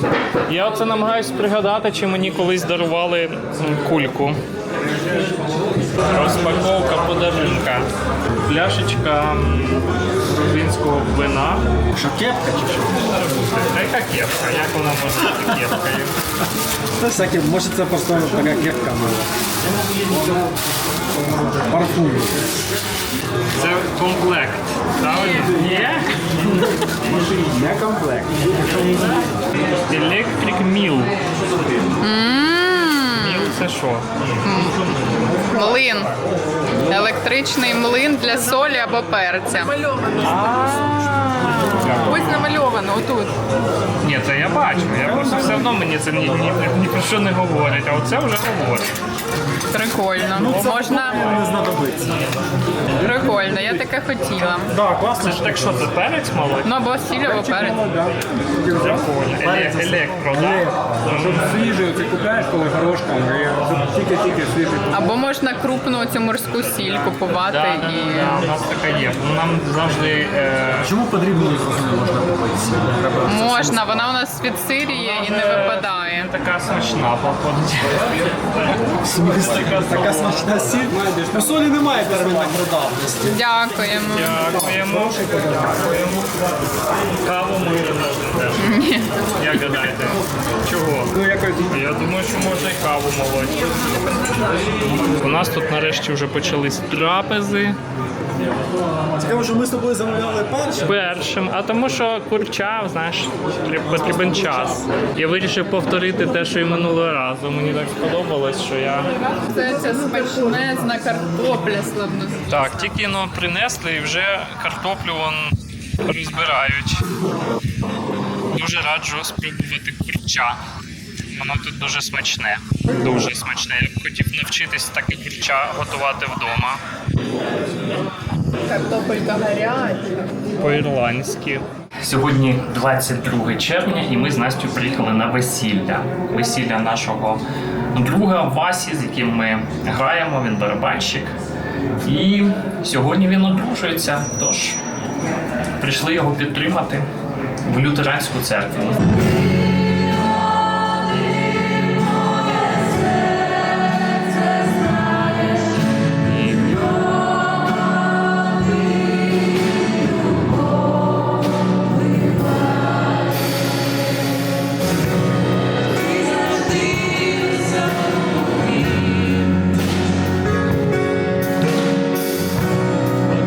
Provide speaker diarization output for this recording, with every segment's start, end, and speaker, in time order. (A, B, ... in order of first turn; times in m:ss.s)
0:00.5-0:04.4 A
0:06.0-0:07.9 A
0:08.4-0:11.6 A
0:11.9-0:13.1 B
0:13.1-0:16.1 A
0:17.0-0:19.3 B
0:20.1-0:20.4 B
0:21.1-0:22.4 B
0:23.6-0:26.7 A
0:25.0-0:25.5 C
0:27.1-0:29.2 B
0:29.9-0:31.2 A
0:32.0-0:33.5 C
0:33.2-0:34.1 A
0:34.4-0:34.8 C
0:35.5-0:36.1 C
0:36.9-0:40.3 C
0:40.2-0:42.3 A
0:42.0-0:43.4 C
0:44.0-0:48.9 A
0:45.1-0:45.6 B
0:49.7-0:51.3 C
0:50.4-0:52.2 B
0:53.0-0:54.8 C
0:54.7-0:55.4 B
0:55.2-0:56.7 A
0:56.6-0:57.8 C
0:57.2-1:05.0 B
0:58.8-1:01.5 A
1:04.9-1:08.4 C
1:07.3-1:10.9 A
1:10.8-1:13.9 B
1:13.3-1:16.3 C
1:14.9-1:20.5 A
1:19.0-1:23.4 B
1:23.3-1:24.4 C
1:24.1-1:26.3 A
1:24.6-1:25.4 B
1:27.2-1:28.7 A
1:28.6-1:29.1 C
1:29.4-1:31.2 A
1:31.1-1:31.8 B
1:31.7-1:33.7 A
1:35.0-1:37.8 A
1:39.2-1:40.9 B
1:40.8-1:49.1 A
1:49.1-1:52.9 C
1:52.5-1:55.5 A
1:56.0-1:57.1 A
1:58.5-2:00.6 A
2:01.3-2:06.8 A
2:08.7-2:10.4 C
2:10.6-2:17.4 A
2:17.9-2:21.3 A
2:22.0-2:24.8 A
2:25.8-2:27.1 A
2:27.7-2:29.3 A
2:36.2-2:37.4 A